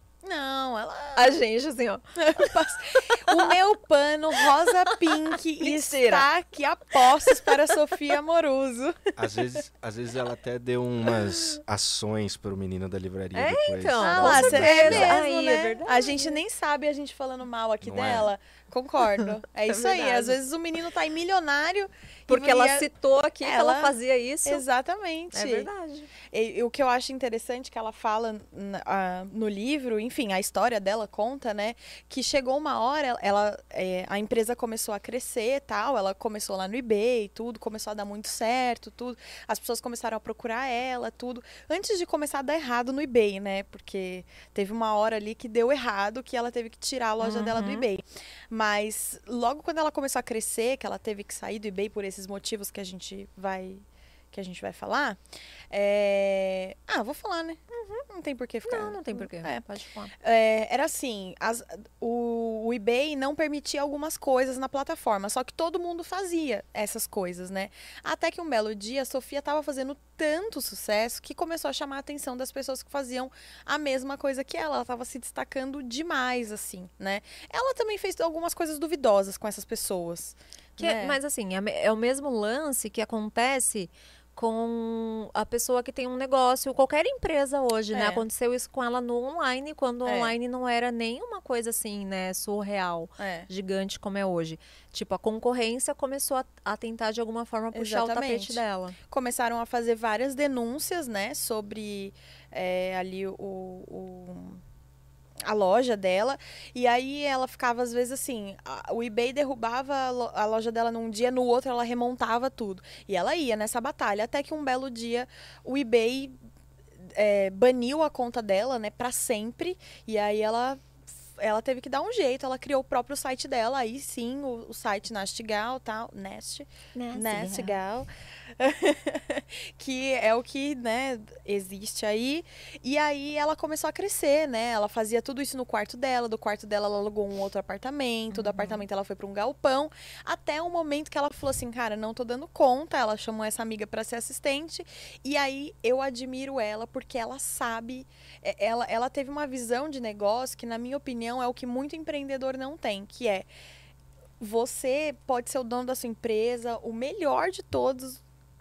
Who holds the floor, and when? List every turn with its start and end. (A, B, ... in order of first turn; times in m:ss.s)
0:00.2-0:01.4 A
0:01.2-0:02.5 B
0:02.2-0:09.6 A
0:03.3-0:03.5 B
0:04.8-0:06.2 B
0:07.2-0:07.5 B
0:09.2-0:15.2 C
0:13.3-0:16.4 B
0:14.0-0:22.9 A
0:17.8-0:18.3 C
0:19.2-0:20.4 B
0:22.3-0:24.6 B
0:23.4-0:23.9 A
0:24.4-0:25.7 A
0:25.3-0:26.1 B
0:26.3-0:59.6 A
0:47.2-0:47.9 B
0:57.7-0:58.0 B
0:58.6-1:00.1 B
1:00.2-1:21.2 A
1:20.8-1:39.0 B
1:27.9-1:28.2 A
1:30.0-1:30.3 A
1:33.2-1:33.5 A
1:37.7-1:44.6 A
1:45.4-1:56.4 A
1:57.0-2:33.5 A
2:06.9-2:07.8 B
2:18.3-2:18.8 B
2:34.4-2:38.2 A